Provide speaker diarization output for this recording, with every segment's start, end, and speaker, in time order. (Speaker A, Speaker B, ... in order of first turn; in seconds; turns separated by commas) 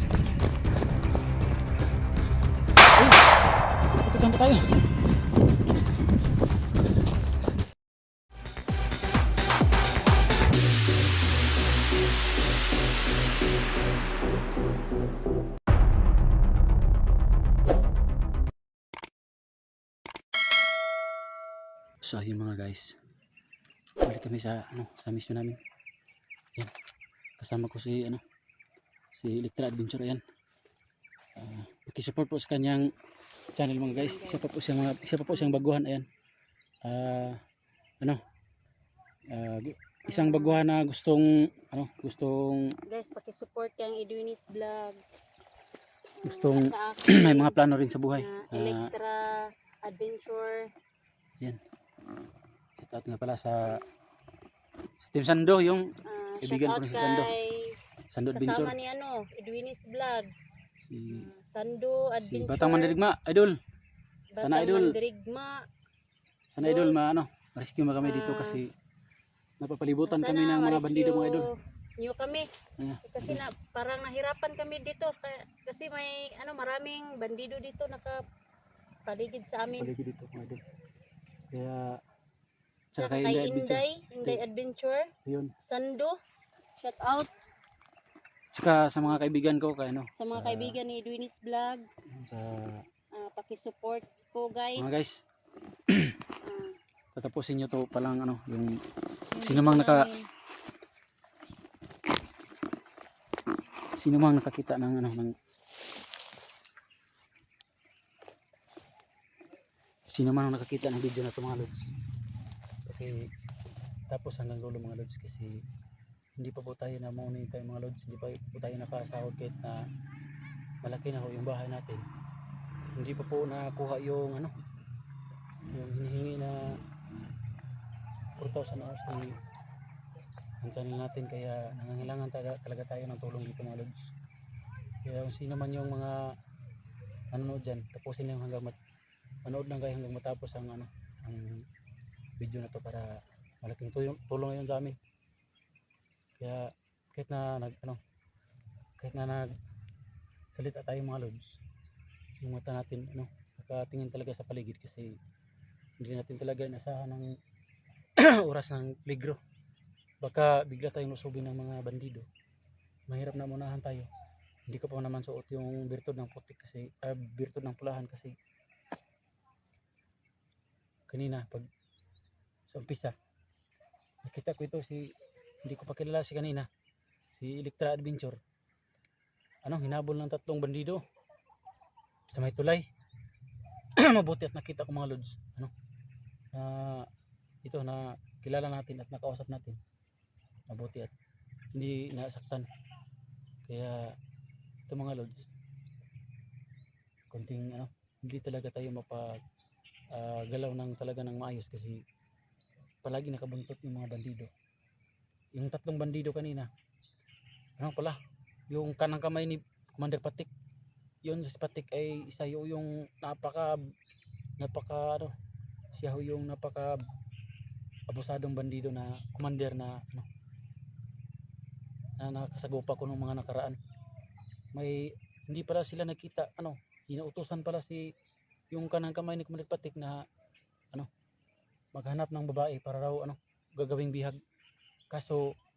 Speaker A: 3.0-3.2, Speaker A: 4.0-4.7, Speaker A: 22.0-23.0, Speaker A: 24.0-25.6, Speaker A: 27.4-28.2, Speaker A: 29.1-30.2, Speaker A: 31.4-32.9, Speaker A: 33.5-36.0, Speaker B: 33.8-34.5, Speaker B: 35.3-35.6, Speaker A: 36.8-37.4, Speaker A: 39.3-42.7, Speaker B: 40.1-40.6, Speaker B: 42.9-45.0, Speaker B: 46.2-47.6, Speaker A: 46.2-48.9, Speaker B: 48.1-50.7, Speaker A: 52.8-53.8, Speaker A: 55.0-55.8, Speaker B: 56.1-57.7, Speaker A: 56.4-57.3, Speaker A: 58.1-58.7, Speaker B: 58.3-60.3, Speaker A: 60.8-61.3, Speaker B: 61.1-63.0, Speaker A: 62.2-63.5, Speaker B: 64.3-65.6, Speaker A: 64.4-64.9, Speaker A: 66.5-68.7, Speaker B: 66.6-67.0, Speaker B: 68.0-68.6, Speaker A: 69.6-71.5, Speaker B: 70.1-72.5, Speaker A: 72.8-73.4, Speaker B: 73.0-78.2, Speaker B: 79.1-79.9, Speaker A: 79.8-80.6, Speaker A: 81.5-81.9, Speaker A: 82.9-84.4, Speaker B: 83.0-85.1, Speaker A: 85.2-85.5, Speaker B: 85.6-86.2, Speaker B: 86.8-87.3, Speaker A: 88.5-90.8, Speaker B: 90.2-91.9, Speaker A: 92.1-92.8, Speaker B: 93.2-94.9, Speaker A: 94.8-95.2, Speaker A: 95.9-96.2, Speaker B: 96.4-96.8, Speaker A: 97.2-98.7, Speaker B: 99.3-100.3, Speaker A: 99.4-100.1, Speaker A: 104.0-105.3, Speaker A: 110.1-111.9, Speaker A: 112.9-113.2, Speaker A: 114.1-115.6, Speaker A: 116.4-119.8, Speaker A: 120.8-122.1, Speaker A: 123.0-124.5, Speaker A: 125.7-126.8, Speaker A: 128.4-129.3, Speaker A: 130.6-134.1, Speaker A: 135.1-136.3, Speaker A: 137.3-138.8, Speaker A: 139.4-141.7, Speaker A: 142.4-143.1, Speaker A: 143.6-145.0, Speaker A: 146.4-148.0, Speaker A: 149.0-149.5, Speaker A: 150.5-151.6, Speaker A: 152.4-155.2, Speaker A: 156.0-157.3, Speaker A: 158.2-159.4, Speaker A: 160.2-162.2, Speaker A: 163.1-164.1, Speaker A: 164.7-168.3, Speaker A: 171.1-171.7, Speaker A: 172.7-173.2, Speaker A: 174.2-175.1, Speaker A: 175.6-176.7, Speaker A: 177.3-178.4, Speaker A: 179.7-181.0, Speaker A: 182.3-182.9, Speaker A: 184.0-185.7, Speaker A: 186.5-187.1, Speaker A: 187.7-189.8, Speaker A: 190.7-191.1, Speaker A: 191.7-192.7, Speaker A: 193.7-194.0, Speaker A: 194.9-195.5, Speaker A: 197.3-199.2, Speaker A: 200.1-202.0, Speaker A: 203.1-204.5, Speaker A: 205.6-206.7, Speaker A: 207.8-208.2, Speaker A: 208.7-210.5, Speaker A: 211.2-213.8, Speaker A: 214.6-215.3, Speaker A: 215.9-217.0, Speaker A: 218.1-220.3, Speaker A: 222.2-223.8, Speaker A: 224.7-228.0, Speaker A: 228.7-230.2, Speaker A: 231.9-234.4, Speaker A: 235.1-235.5